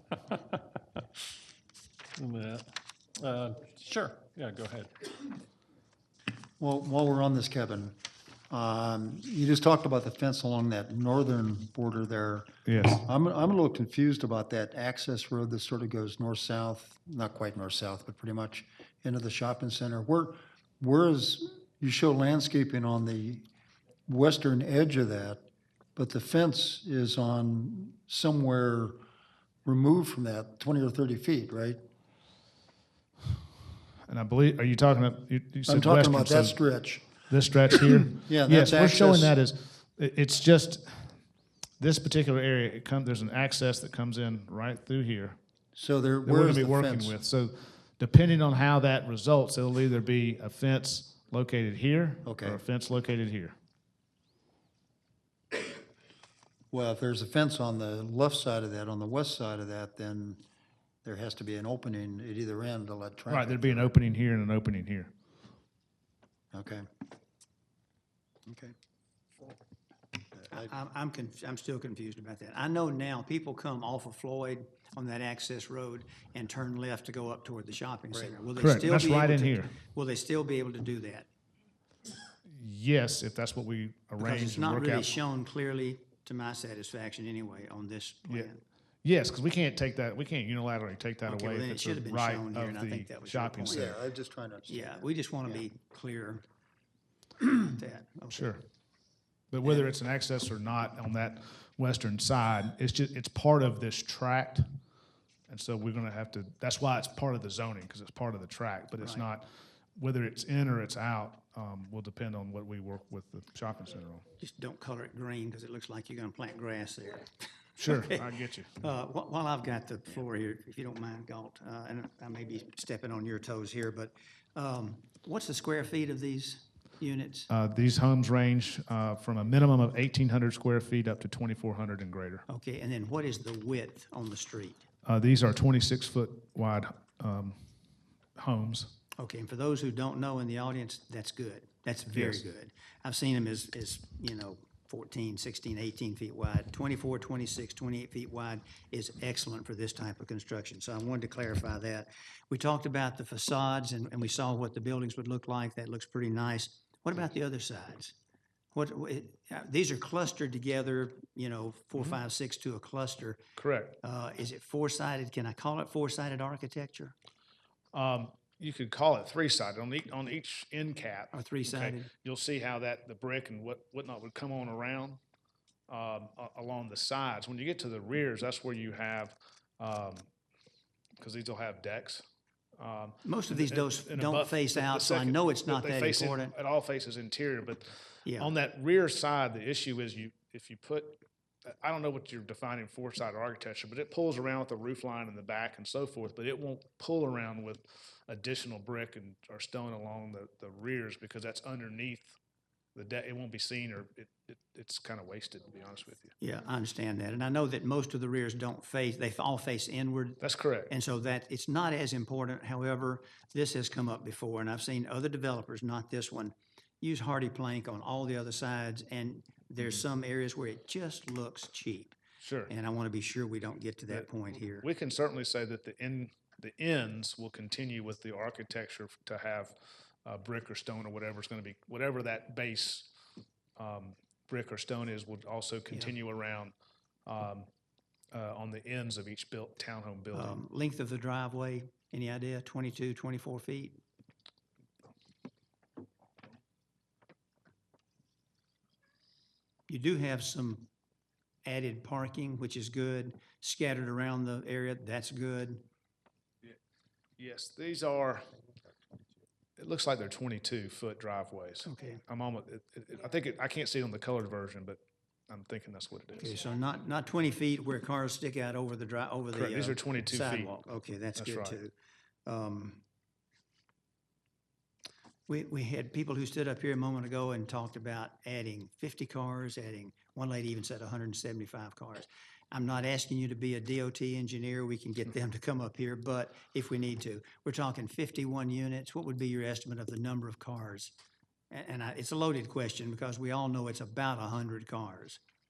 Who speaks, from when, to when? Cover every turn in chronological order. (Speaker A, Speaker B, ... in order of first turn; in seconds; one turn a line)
Speaker A: 2.2-5.3
Speaker B: 6.6-8.0
Speaker B: 8.5-12.5
Speaker C: 12.7-13.0
Speaker B: 13.0-23.5
Speaker B: 24.1-25.4
Speaker B: 26.0-29.0
Speaker B: 29.6-31.8
Speaker C: 34.1-36.6
Speaker B: 35.7-37.1
Speaker C: 37.3-41.2
Speaker B: 38.3-39.3
Speaker C: 41.8-45.4
Speaker B: 45.8-47.2
Speaker C: 46.2-53.5
Speaker B: 52.2-52.6
Speaker B: 56.7-60.4
Speaker B: 61.0-63.9
Speaker C: 63.3-65.1
Speaker B: 66.5-66.9
Speaker B: 68.5-68.7
Speaker B: 70.4-70.7
Speaker D: 70.5-81.3
Speaker C: 78.6-79.8
Speaker C: 82.5-85.2
Speaker D: 84.2-88.6
Speaker C: 89.0-94.0
Speaker D: 91.3-93.9
Speaker B: 93.7-95.6
Speaker D: 94.7-96.5
Speaker D: 97.4-98.6
Speaker C: 98.3-98.6
Speaker C: 99.5-104.7
Speaker D: 99.6-99.9
Speaker C: 105.5-114.2
Speaker D: 109.0-109.3
Speaker D: 114.4-117.3
Speaker C: 117.8-118.7
Speaker D: 117.9-118.2
Speaker D: 118.8-127.5
Speaker C: 127.5-132.4
Speaker D: 132.5-134.8
Speaker C: 135.1-137.7
Speaker C: 138.4-138.9
Speaker D: 139.2-158.2
Speaker C: 142.1-142.4
Speaker D: 158.7-163.4
Speaker C: 163.6-164.0
Speaker D: 164.0-167.2
Speaker C: 167.9-175.2
Speaker D: 171.3-172.1
Speaker C: 175.9-180.3
Speaker C: 181.2-182.2
Speaker C: 182.8-202.4
Speaker D: 183.2-186.6
Speaker D: 188.2-188.5
Speaker C: 202.9-206.3
Speaker D: 206.4-222.2
Speaker C: 210.4-210.9
Speaker C: 222.4-222.7
Speaker D: 222.7-224.9
Speaker C: 224.1-229.7
Speaker C: 230.2-233.1
Speaker C: 233.8-236.7
Speaker C: 237.3-237.7
Speaker C: 238.3-240.6
Speaker D: 240.3-244.0
Speaker D: 249.9-250.9
Speaker D: 251.6-255.8
Speaker C: 257.4-258.5
Speaker C: 259.8-266.6
Speaker D: 261.9-262.2
Speaker D: 266.4-271.9
Speaker C: 269.5-271.8
Speaker D: 272.5-273.0
Speaker D: 275.5-291.1
Speaker D: 291.7-295.4